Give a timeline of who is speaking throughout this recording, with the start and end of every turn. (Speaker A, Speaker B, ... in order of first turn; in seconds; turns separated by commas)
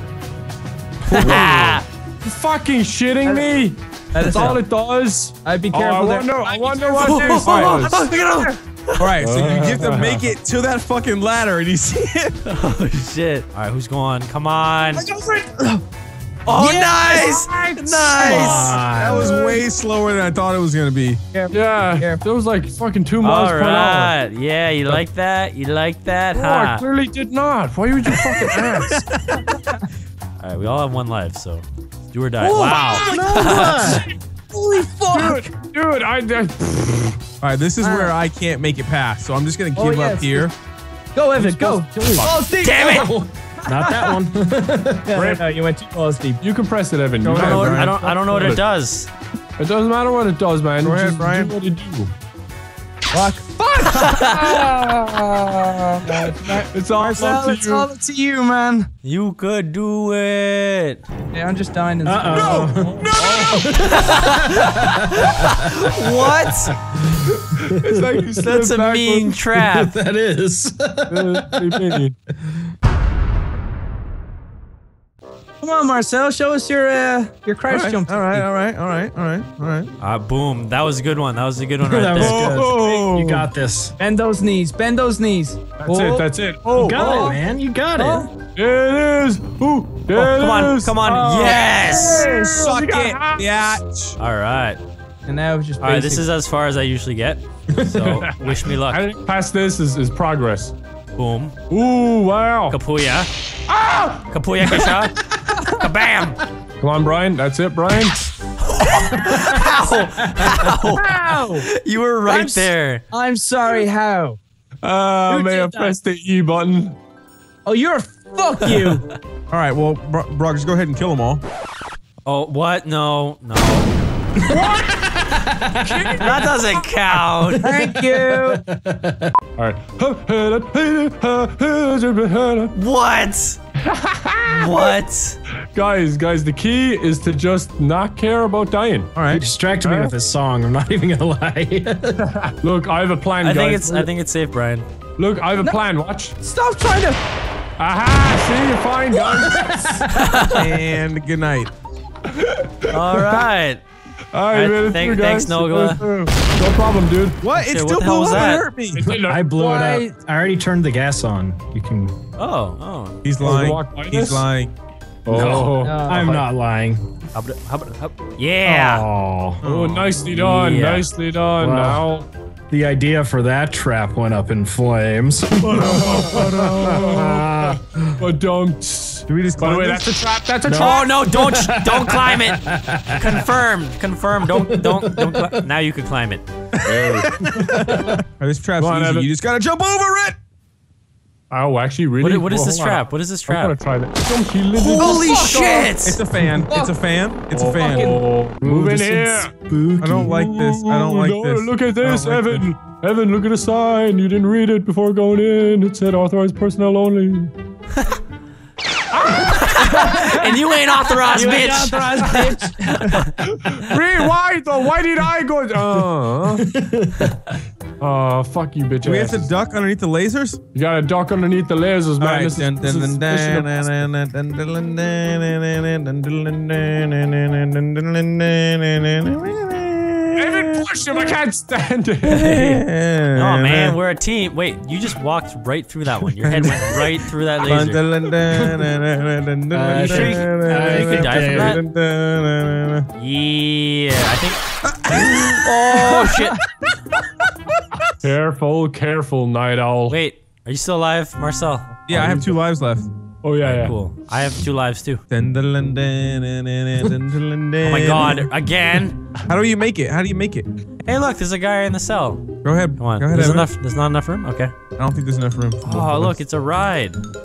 Speaker A: 1.1-1.9, Speaker B: 1.1-8.1, Speaker C: 3.2-3.5, Speaker C: 4.1-4.7, Speaker C: 5.4-7.9, Speaker A: 7.0-9.1, Speaker D: 7.2-7.9, Speaker D: 9.0-12.4, Speaker B: 9.2-10.3, Speaker A: 12.5-15.1, Speaker C: 14.9-15.8, Speaker A: 16.5-18.8, Speaker C: 16.6-17.4, Speaker B: 17.1-18.5, Speaker C: 18.2-19.5, Speaker E: 18.2-19.4, Speaker D: 18.9-21.2, Speaker C: 21.3-22.2, Speaker B: 21.5-24.1, Speaker A: 23.2-26.8, Speaker B: 26.3-29.0, Speaker A: 30.4-34.1, Speaker C: 32.4-33.6, Speaker E: 32.9-34.1, Speaker C: 34.5-35.5, Speaker B: 35.1-37.2, Speaker D: 37.4-40.5, Speaker C: 37.8-38.2, Speaker C: 39.7-40.5, Speaker C: 41.1-44.2, Speaker E: 41.4-45.1, Speaker A: 42.6-43.1, Speaker C: 45.1-46.4, Speaker B: 45.1-45.4, Speaker B: 46.4-48.6, Speaker D: 47.2-48.0, Speaker A: 47.3-49.1, Speaker B: 49.6-52.1, Speaker D: 50.8-51.5, Speaker C: 53.1-58.9, Speaker A: 54.0-54.4, Speaker B: 54.4-57.9, Speaker A: 59.0-61.0, Speaker C: 61.3-63.0, Speaker E: 62.0-65.6, Speaker D: 62.3-63.7, Speaker B: 63.1-63.5, Speaker A: 63.9-66.7, Speaker E: 67.1-68.4, Speaker D: 67.7-69.2, Speaker A: 68.4-69.9, Speaker B: 68.5-69.3, Speaker E: 69.6-72.5, Speaker B: 71.1-72.2, Speaker C: 75.6-78.4, Speaker D: 77.7-79.9, Speaker A: 80.0-82.6, Speaker E: 81.8-84.0, Speaker D: 82.2-83.5, Speaker C: 84.0-86.3, Speaker B: 85.8-87.4, Speaker E: 86.7-88.3, Speaker C: 87.0-87.4, Speaker C: 88.0-88.3, Speaker B: 88.5-93.8, Speaker A: 90.1-92.3, Speaker D: 91.3-94.2, Speaker A: 94.2-94.8, Speaker C: 95.3-96.3, Speaker A: 95.8-99.0, Speaker B: 98.0-100.8, Speaker A: 101.2-101.6, Speaker B: 101.7-102.8, Speaker A: 102.7-103.3, Speaker B: 103.7-104.2, Speaker A: 104.2-106.4, Speaker B: 106.8-108.2, Speaker A: 108.6-113.0, Speaker E: 109.2-109.7, Speaker B: 111.1-111.3, Speaker C: 111.3-111.7, Speaker C: 112.2-114.4, Speaker B: 114.8-117.0, Speaker C: 115.3-115.9, Speaker C: 117.7-119.0, Speaker A: 118.7-119.0, Speaker D: 119.5-121.4, Speaker A: 122.2-123.9, Speaker B: 124.5-127.3, Speaker E: 124.5-126.3, Speaker A: 126.2-127.7, Speaker C: 127.6-128.6, Speaker E: 128.0-129.3, Speaker B: 129.6-132.8, Speaker A: 132.7-133.6, Speaker B: 133.8-134.9, Speaker A: 134.5-135.4, Speaker B: 135.7-139.2, Speaker D: 139.2-139.5, Speaker E: 139.3-142.3, Speaker B: 139.8-140.1, Speaker B: 142.2-144.1, Speaker A: 143.4-144.9, Speaker B: 145.2-146.4, Speaker C: 146.4-147.2, Speaker B: 147.8-149.8, Speaker E: 149.6-149.9, Speaker A: 150.1-150.6, Speaker D: 150.5-151.7, Speaker B: 152.3-153.2, Speaker A: 152.9-153.8, Speaker B: 154.3-157.4, Speaker A: 154.5-156.0, Speaker D: 157.4-159.0, Speaker A: 157.6-158.7, Speaker B: 158.9-159.6, Speaker E: 159.1-162.2, Speaker C: 159.6-160.1, Speaker A: 162.4-163.2, Speaker D: 163.2-164.7, Speaker B: 163.4-164.4, Speaker B: 165.2-166.0, Speaker A: 165.3-165.8, Speaker C: 165.8-166.4, Speaker E: 166.0-167.0, Speaker A: 167.3-169.1, Speaker E: 168.7-169.6, Speaker D: 169.6-170.2, Speaker B: 169.6-172.3, Speaker A: 170.3-171.1, Speaker E: 171.6-172.1, Speaker E: 172.7-178.0, Speaker D: 175.6-177.0, Speaker B: 175.8-181.1, Speaker D: 179.3-180.2, Speaker E: 180.6-183.4, Speaker A: 180.8-186.4, Speaker E: 184.6-185.6, Speaker B: 186.8-187.9, Speaker C: 187.0-187.3, Speaker E: 187.6-188.1, Speaker D: 187.9-190.4, Speaker B: 188.8-189.3, Speaker B: 191.5-195.2, Speaker A: 192.2-193.8, Speaker A: 194.8-196.2, Speaker D: 195.0-198.2, Speaker C: 195.0-195.9, Speaker C: 196.5-197.0, Speaker B: 197.5-199.6, Speaker C: 197.7-198.2, Speaker E: 198.6-200.4, Speaker D: 200.0-202.7, Speaker B: 200.2-207.5, Speaker B: 209.1-210.3, Speaker A: 209.5-212.5, Speaker C: 211.3-213.3, Speaker B: 213.5-216.7, Speaker E: 216.6-217.3, Speaker B: 218.0-219.5, Speaker D: 219.0-220.6, Speaker B: 220.7-223.8, Speaker D: 222.2-231.3, Speaker B: 230.4-232.4, Speaker A: 232.3-238.0, Speaker D: 232.4-234.0, Speaker D: 236.4-237.1, Speaker D: 237.6-243.1, Speaker E: 238.5-238.8, Speaker E: 239.7-241.8, Speaker A: 239.9-241.8, Speaker A: 243.2-244.6, Speaker A: 245.3-246.6, Speaker B: 248.2-250.2, Speaker A: 250.1-251.9, Speaker D: 252.1-253.1, Speaker B: 252.1-252.5, Speaker B: 253.4-253.9, Speaker A: 253.6-255.2, Speaker D: 255.3-258.5, Speaker A: 257.8-259.2, Speaker D: 259.5-260.7, Speaker A: 261.0-264.7, Speaker D: 262.6-263.7, Speaker D: 265.0-265.9, Speaker A: 265.8-267.2, Speaker B: 265.9-266.4